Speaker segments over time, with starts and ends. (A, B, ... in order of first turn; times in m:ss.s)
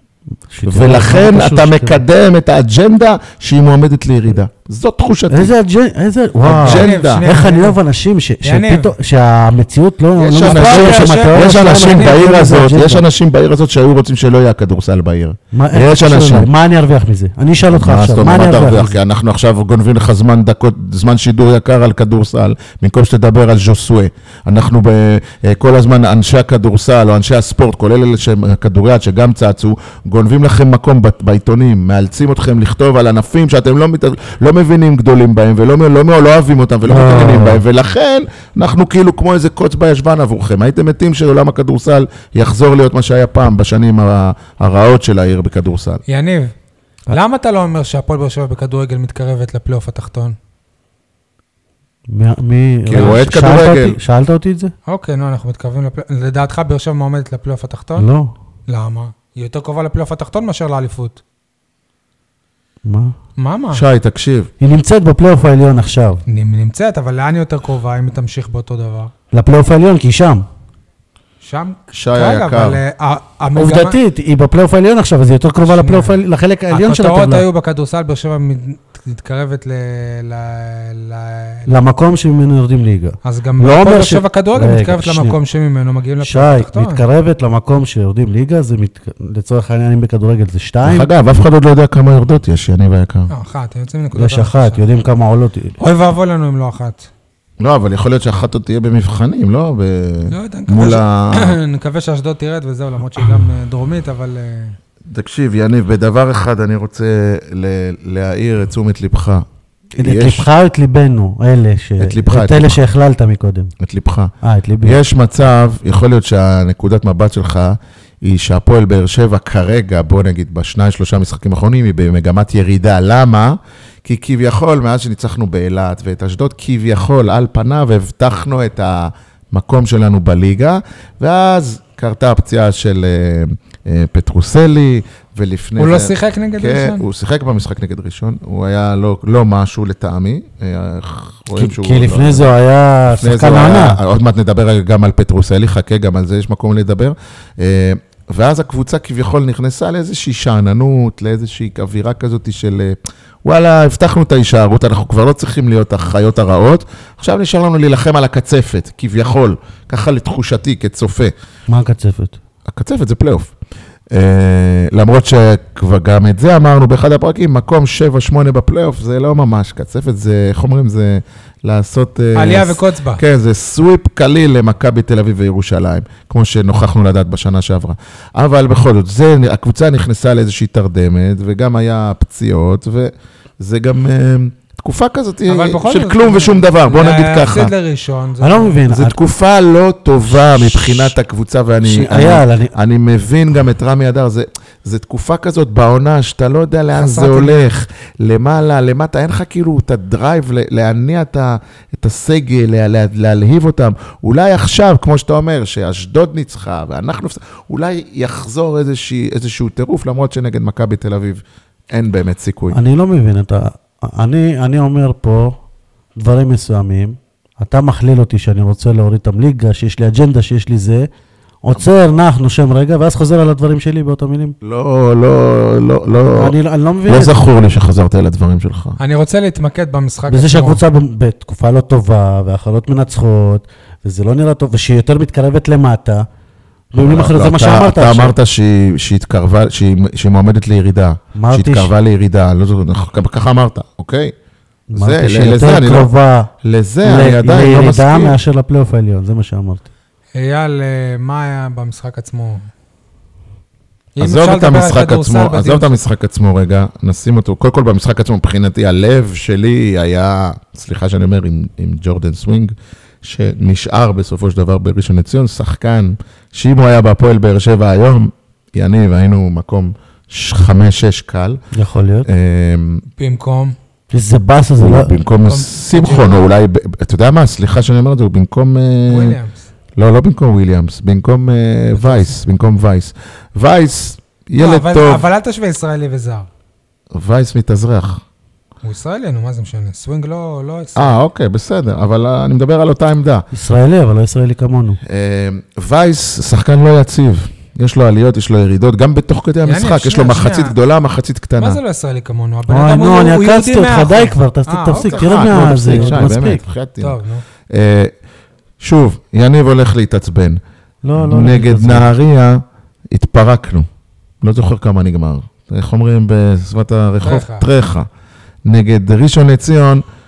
0:00.5-0:02.0 A
0:00.6-0:05.5 B
0:05.3-0:13.0 A
0:06.4-0:07.3 B
0:06.6-0:07.8 C
0:08.4-0:08.9 C
0:10.2-0:16.5 B
0:10.4-0:12.3 C
0:15.5-0:19.0 A
0:17.7-0:46.0 B
0:36.8-0:37.6 A
0:46.1-0:46.5 C
0:47.1-0:50.4 C
0:52.1-0:54.7 A
0:52.9-0:54.0 B
0:54.9-0:58.1 C
0:58.0-0:58.3 A
0:58.7-1:01.2 C
1:02.8-1:03.2 A
1:03.4-1:03.8 C
1:03.7-1:04.5 B
1:04.6-1:06.2 A
1:06.3-1:09.1 C
1:09.3-1:10.5 A
1:11.4-1:14.0 C
1:11.9-1:12.8 B
1:13.6-1:17.5 A
1:15.6-1:16.2 C
1:16.7-1:21.7 C
1:21.7-1:25.4 A
1:23.2-1:27.0 C
1:26.2-1:31.1 A
1:30.8-1:33.3 B
1:33.3-1:34.8 C
1:34.2-1:35.8 A
1:35.8-1:37.1 C
1:37.6-1:41.6 B
1:40.3-1:44.8 C
1:45.1-1:49.4 B
1:50.0-1:50.5 B
1:50.0-1:53.7 A
1:52.0-1:52.8 B
1:53.8-1:54.3 B
1:54.4-1:55.0 A
1:54.8-2:22.5 B
2:15.8-2:17.0 C
2:21.6-2:24.0 A
2:23.1-2:41.3 B
2:41.7-2:42.4 A
2:42.7-2:43.5 B
2:44.1-3:07.7 B
2:52.4-2:53.2 C
3:05.5-3:08.8 C
3:08.4-3:09.2 A
3:08.9-3:32.8 B
3:10.4-3:11.1 A
3:11.8-3:12.7 A
3:16.9-3:17.7 C
3:32.7-3:35.6 A
3:36.2-3:41.1 A
3:41.6-3:44.6 A
3:44.6-3:46.6 B
3:46.3-3:47.5 A
3:47.1-3:49.0 B
3:49.0-3:50.8 C
3:50.3-3:56.3 A
3:56.9-3:58.4 A
3:57.0-4:04.3 B
4:01.4-4:01.9 A
4:04.9-4:06.5 A
4:04.9-4:06.1 B
4:06.6-4:08.4 B
4:07.0-4:09.8 A
4:10.4-4:12.7 C
4:14.2-4:15.9 C
4:14.2-4:31.6 B
4:31.7-4:32.3 A
4:32.2-4:33.0 B
4:33.2-4:33.8 C
4:34.1-4:35.1 A
4:34.8-4:39.4 B
4:35.4-4:36.4 C
4:39.1-4:39.7 C
4:40.0-4:45.3 B
4:42.0-4:42.3 C
4:44.6-4:46.5 C
4:47.1-4:48.2 B
4:48.8-4:51.1 C
4:51.0-4:53.5 B
4:53.5-4:55.0 A
4:55.1-5:01.8 B
4:59.6-5:00.7 C
5:01.6-5:06.3 C
5:02.7-5:06.6 A
5:05.0-5:07.2 B
5:07.0-5:07.4 C
5:07.7-5:08.1 B
5:08.8-5:10.6 B
5:11.0-5:12.1 A
5:11.2-5:13.9 B
5:14.4-5:18.1 B
5:17.2-5:17.7 C
5:18.6-5:20.0 B